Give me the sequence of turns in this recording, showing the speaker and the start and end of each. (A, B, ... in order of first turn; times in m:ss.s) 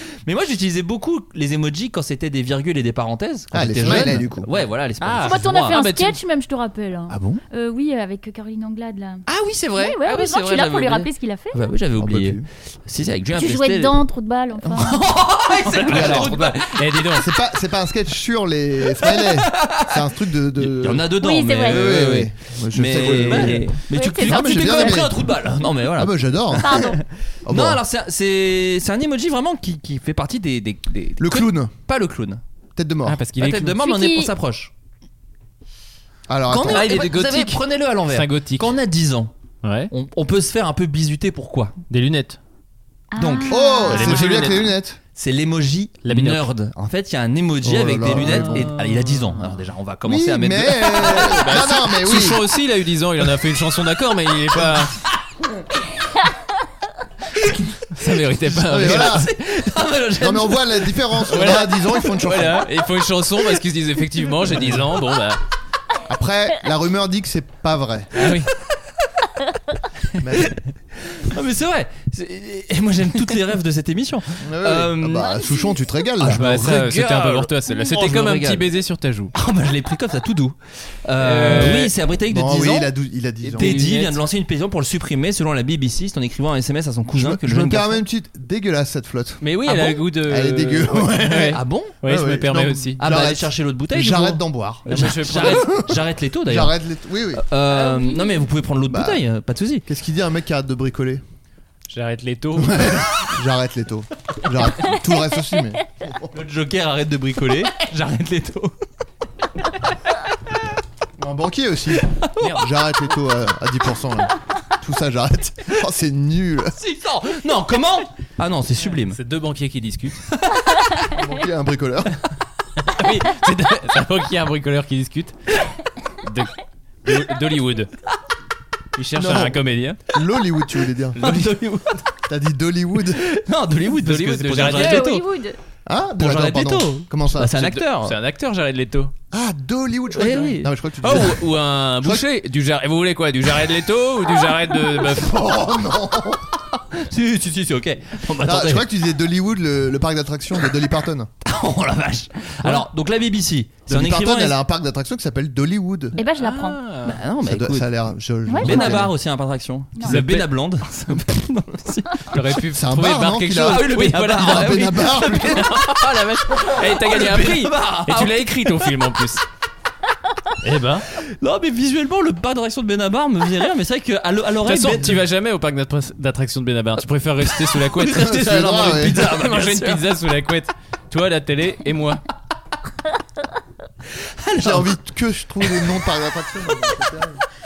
0:00.2-0:05.8 A
0:03.5-0:04.5 B
0:03.8-0:04.2 C
0:05.0-0:06.2 C
0:05.2-0:09.2 D
0:07.1-0:07.4 A
0:09.3-0:14.0 A
0:09.8-0:11.7 D
0:12.0-0:12.4 B
0:13.3-0:15.1 D
0:14.6-0:17.2 A
0:15.6-0:17.3 C
0:15.8-0:16.6 B
0:17.1-0:21.1 B
0:19.0-0:20.0 A
0:20.6-0:32.4 A
0:21.2-0:21.9 D
0:21.6-0:25.2 B
0:22.9-0:23.6 C
0:23.9-0:25.0 D
0:26.0-0:26.9 B
0:26.6-0:27.0 D
0:27.4-0:27.8 B
0:31.2-0:31.7 B
0:32.8-0:33.2 B
0:33.0-0:33.8 C
0:33.4-0:34.7 A
0:33.8-0:34.3 D
0:36.3-0:37.0 B
0:36.5-0:39.3 A
0:36.6-0:38.7 C
0:39.6-0:39.9 C
0:39.9-0:41.7 A
0:41.9-0:42.4 C
0:43.1-0:44.3 D
0:43.2-0:44.5 A
0:43.5-0:45.0 B
0:43.9-0:44.7 C
0:45.1-0:51.4 A
0:46.0-0:46.5 C
0:47.6-0:48.7 B
0:48.0-0:49.6 C
0:50.0-0:52.5 B
0:51.0-0:54.9 C
0:57.9-0:59.2 C
0:58.5-0:59.3 B
0:58.7-1:00.9 A
1:00.2-1:02.7 B
1:01.3-1:05.4 C
1:06.1-1:08.2 B
1:08.1-1:08.5 C
1:10.2-1:10.6 B
1:11.1-1:15.4 A
1:14.4-1:16.4 B
1:16.2-1:18.7 A
1:16.2-1:19.3 C
1:19.3-1:22.9 A
1:21.2-1:21.9 C
1:22.3-1:23.8 B
1:23.4-1:24.2 C
1:23.6-1:28.0 A
1:27.1-1:37.4 B
1:29.4-1:33.0 C
1:29.7-1:30.0 A
1:31.3-1:32.0 A
1:33.0-1:36.7 A
1:34.9-1:35.8 C
1:37.4-1:39.8 A
1:37.7-1:38.4 D
1:38.9-1:39.2 B
1:39.8-1:41.2 B
1:41.9-1:43.0 C
1:42.6-1:46.3 B
1:46.3-1:48.7 A
1:51.2-1:56.8 B
1:52.4-1:52.6 C
1:56.8-1:59.2 A
1:58.8-2:00.2 C
2:01.1-2:02.2 B
2:02.8-2:05.3 C
2:06.2-2:06.5 C
2:07.0-2:07.9 C
2:09.0-2:10.0 C
2:09.1-2:11.2 B
2:11.2-2:12.0 A
2:11.2-2:11.4 C
2:12.3-2:13.2 B
2:13.2-2:15.2 A
2:14.0-2:15.2 C
2:14.7-2:15.6 D
2:15.8-2:17.6 B
2:16.2-2:18.2 A
2:17.5-2:19.1 C
2:19.3-2:21.4 B
2:20.1-2:21.4 A
2:21.0-2:25.4 C
2:25.1-2:26.4 B
2:26.9-2:28.9 A
2:28.4-2:31.3 B
2:31.4-2:34.6 A
2:33.9-2:36.2 B
2:36.2-2:36.8 D
2:36.4-2:37.2 C
2:37.0-2:37.9 A
2:37.4-2:39.1 B
2:38.5-2:39.0 D
2:38.6-2:42.5 A
2:40.0-2:40.5 C
2:42.3-2:49.4 C
2:42.7-2:45.6 B
2:43.6-2:48.9 A
2:50.6-2:51.0 C
2:51.2-2:55.2 A
2:54.6-2:58.4 C
2:57.5-3:00.0 A
2:58.1-2:59.3 B
2:59.1-3:02.2 C
3:04.4-3:05.0 A
3:04.6-3:07.4 B
3:05.6-3:06.1 A